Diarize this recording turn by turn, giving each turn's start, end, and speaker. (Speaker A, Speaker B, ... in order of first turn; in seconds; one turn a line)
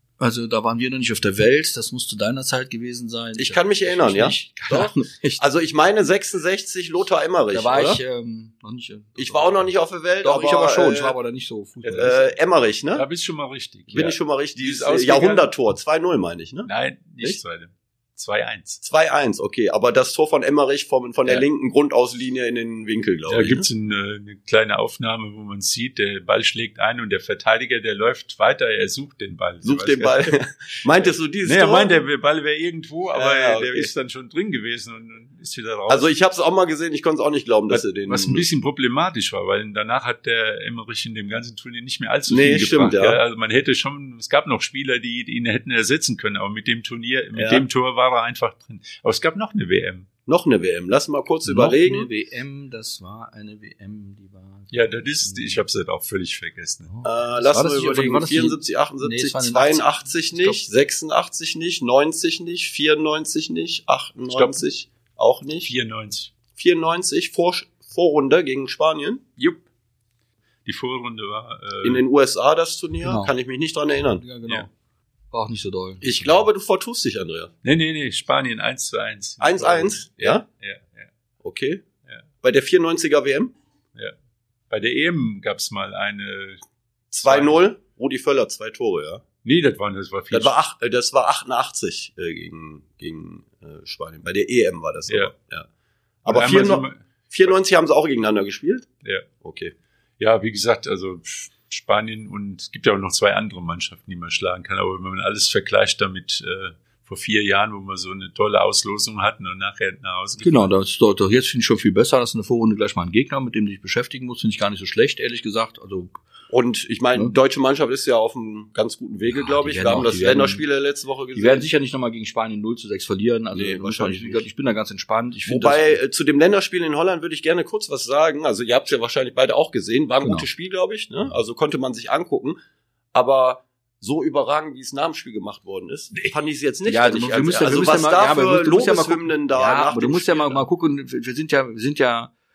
Speaker A: 0.2-5.4
Speaker B: 3.4-8.0
Speaker A: 7.5-9.7
Speaker B: 9.2-11.2
Speaker A: 10.2-12.3
Speaker C: 11.8-12.1
Speaker B: 12.0-13.1
Speaker C: 12.9-15.5
Speaker B: 13.9-16.7
Speaker C: 16.7-18.8
Speaker B: 18.8-23.7
Speaker C: 23.3-36.1
Speaker B: 29.6-31.9
Speaker B: 33.1-33.9
Speaker B: 35.9-38.4
Speaker C: 37.7-50.1
Speaker B: 42.3-43.2
Speaker B: 47.3-47.6
Speaker B: 50.3-52.1
Speaker A: 51.5-55.6
Speaker C: 54.7-56.9
Speaker A: 56.9-60.6
Speaker B: 57.0-65.7
Speaker C: 64.3-64.6
Speaker C: 65.6-66.3
Speaker B: 66.5-69.6
Speaker C: 70.7-72.0
Speaker B: 71.8-74.2
Speaker A: 73.0-73.3
Speaker A: 74.2-74.7
Speaker A: 75.3-76.4
Speaker B: 76.0-77.5
Speaker C: 77.6-81.1
Speaker B: 79.4-80.5
Speaker B: 81.4-81.8
Speaker B: 82.4-83.5
Speaker C: 84.7-86.6
Speaker B: 87.1-89.2
Speaker C: 87.1-87.6
Speaker C: 89.4-90.5
Speaker B: 90.3-95.7
Speaker B: 96.2-98.9
Speaker C: 96.3-97.0
Speaker B: 99.4-99.7
Speaker C: 100.2-110.7
Speaker A: 110.4-116.2
Speaker B: 116.5-121.7
Speaker A: 119.3-120.6
Speaker A: 121.3-126.0
Speaker B: 123.5-124.5
Speaker B: 125.5-132.6
Speaker B: 133.1-140.7
Speaker A: 136.9-142.3